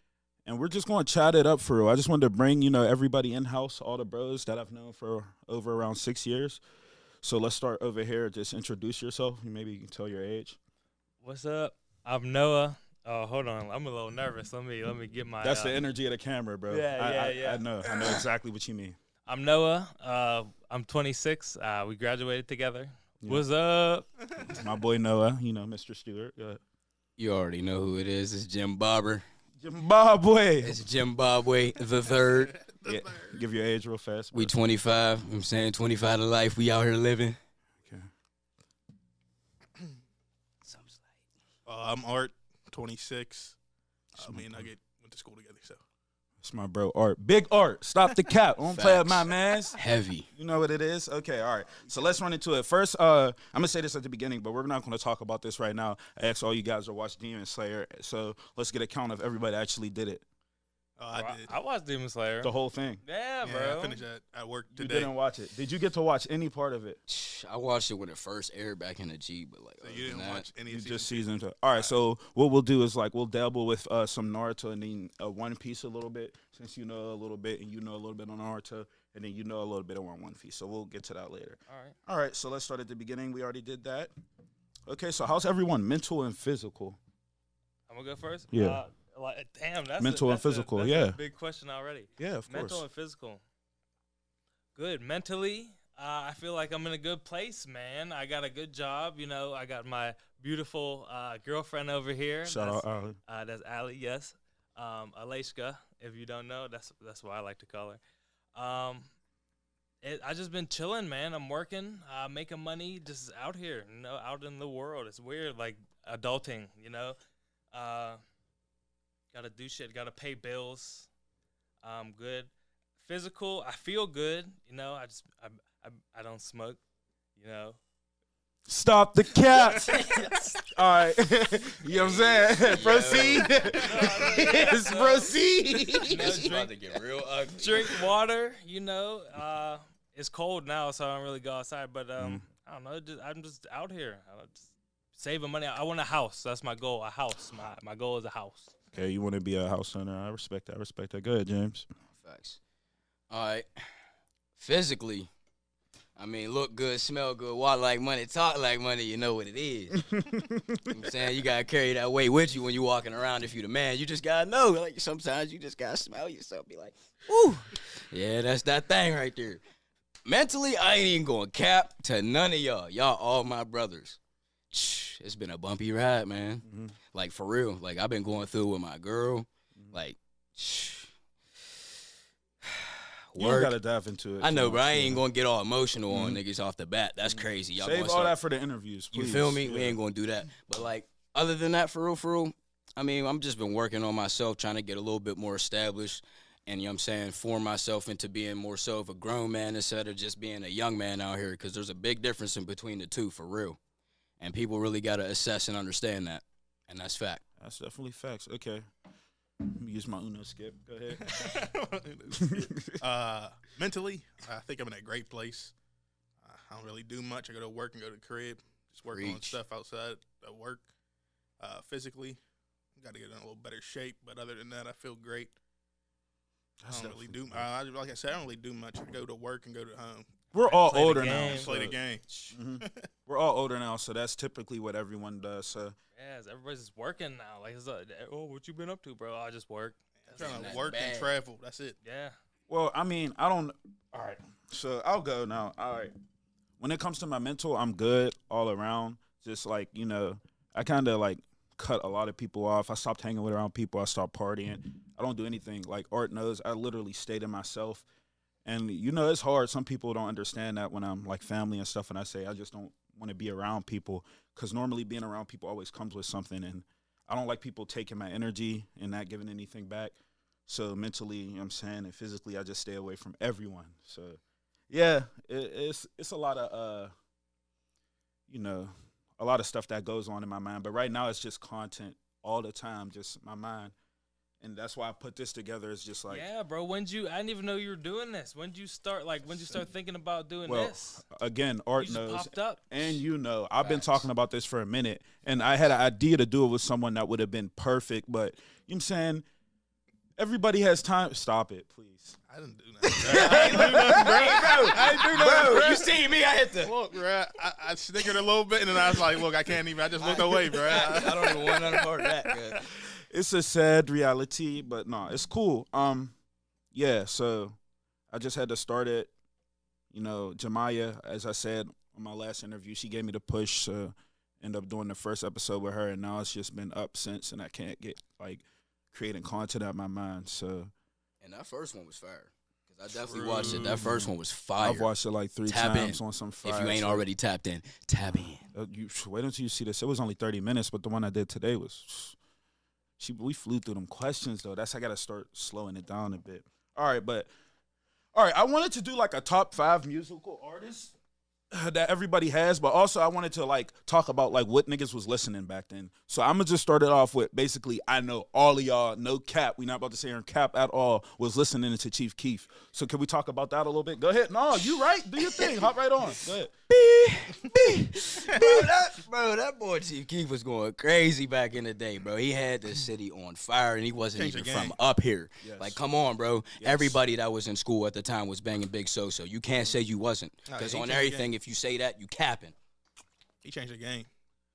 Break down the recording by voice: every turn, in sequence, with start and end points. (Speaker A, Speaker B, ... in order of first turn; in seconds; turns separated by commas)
Speaker A: 0.5-6.6, Speaker A: 7.2-10.6, Speaker B: 11.2-15.8, Speaker A: 15.4-19.0, Speaker B: 16.7-17.7, Speaker B: 19.3-24.1, Speaker A: 24.4-26.6, Speaker C: 27.2-29.2, Speaker A: 29.6-30.8, Speaker C: 30.6-32.6, Speaker D: 32.6-33.4, Speaker A: 32.8-34.5, Speaker C: 34.3-37.4, Speaker C: 40.6-41.0, Speaker D: 41.7-43.5, Speaker A: 44.2-44.7, Speaker D: 44.2-45.8, Speaker A: 46.4-49.8, Speaker C: 48.7-50.3, Speaker A: 50.3-60.2, Speaker D: 61.0-61.5, Speaker B: 61.1-62.5, Speaker A: 62.4-63.0, Speaker B: 63.0-64.0, Speaker D: 63.4-65.1, Speaker A: 64.7-67.0, Speaker C: 67.1-70.5, Speaker D: 69.8-72.0, Speaker A: 70.7-84.1, Speaker B: 81.7-82.0, Speaker A: 84.9-87.0, Speaker B: 87.9-93.4, Speaker A: 88.5-88.8, Speaker A: 90.0-91.2, Speaker A: 92.2-92.8, Speaker B: 94.7-108.0, Speaker A: 102.4-103.2, Speaker B: 108.5-109.1, Speaker B: 110.0-117.2, Speaker B: 117.7-118.2, Speaker B: 119.3-121.1, Speaker B: 121.8-126.8, Speaker B: 127.3-127.8, Speaker A: 128.7-130.1, Speaker C: 129.8-130.3, Speaker B: 130.1-130.4, Speaker A: 130.7-136.5, Speaker C: 131.8-134.4, Speaker B: 133.8-135.3, Speaker C: 135.9-138.0, Speaker B: 136.0-136.7, Speaker B: 137.6-148.7, Speaker A: 142.2-142.4, Speaker A: 148.9-151.9, Speaker C: 152.1-152.6, Speaker C: 153.3-153.9, Speaker C: 154.6-155.3, Speaker C: 156.2-160.1, Speaker A: 159.9-161.0, Speaker C: 160.9-169.6, Speaker C: 170.2-174.2, Speaker C: 174.7-181.1, Speaker A: 176.7-176.9, Speaker C: 182.6-183.7, Speaker A: 183.4-185.2, Speaker C: 184.4-188.3, Speaker A: 186.1-186.4, Speaker A: 187.4-190.0, Speaker C: 189.1-203.8, Speaker C: 204.4-207.4, Speaker A: 207.6-208.8, Speaker A: 209.6-211.5, Speaker D: 211.2-215.7, Speaker A: 212.3-213.0, Speaker D: 216.4-220.8, Speaker C: 219.1-219.6, Speaker D: 221.6-222.4, Speaker D: 223.0-225.5, Speaker A: 226.8-227.7, Speaker D: 226.8-230.3, Speaker A: 230.5-231.9, Speaker B: 230.6-231.7, Speaker D: 231.6-233.0, Speaker A: 232.5-235.9, Speaker B: 236.2-240.8, Speaker D: 240.2-242.0, Speaker C: 240.4-241.3, Speaker B: 242.0-242.3, Speaker A: 242.7-246.1, Speaker A: 246.8-258.0, Speaker A: 258.6-270.1, Speaker A: 270.7-274.4, Speaker A: 274.9-277.1, Speaker A: 278.5-283.9, Speaker A: 284.6-286.4, Speaker B: 286.3-291.2, Speaker A: 290.6-299.4, Speaker B: 292.0-293.2, Speaker C: 293.8-294.2, Speaker A: 300.4-302.4, Speaker D: 302.5-306.1, Speaker A: 303.1-306.0, Speaker C: 303.2-306.9, Speaker D: 306.8-312.0, Speaker C: 310.2-312.9, Speaker A: 313.0-316.3, Speaker A: 316.9-317.8, Speaker A: 318.3-319.3, Speaker A: 320.1-330.9, Speaker C: 331.4-335.1, Speaker D: 333.1-334.0, Speaker A: 333.5-337.2, Speaker C: 335.7-338.6, Speaker A: 338.7-342.4, Speaker A: 343.2-347.5, Speaker A: 348.3-351.1, Speaker A: 351.7-366.7, Speaker C: 365.4-365.9, Speaker C: 366.9-382.7, Speaker D: 374.3-374.9, Speaker A: 375.6-376.0, Speaker A: 376.8-377.2, Speaker D: 380.7-381.5, Speaker D: 383.6-384.3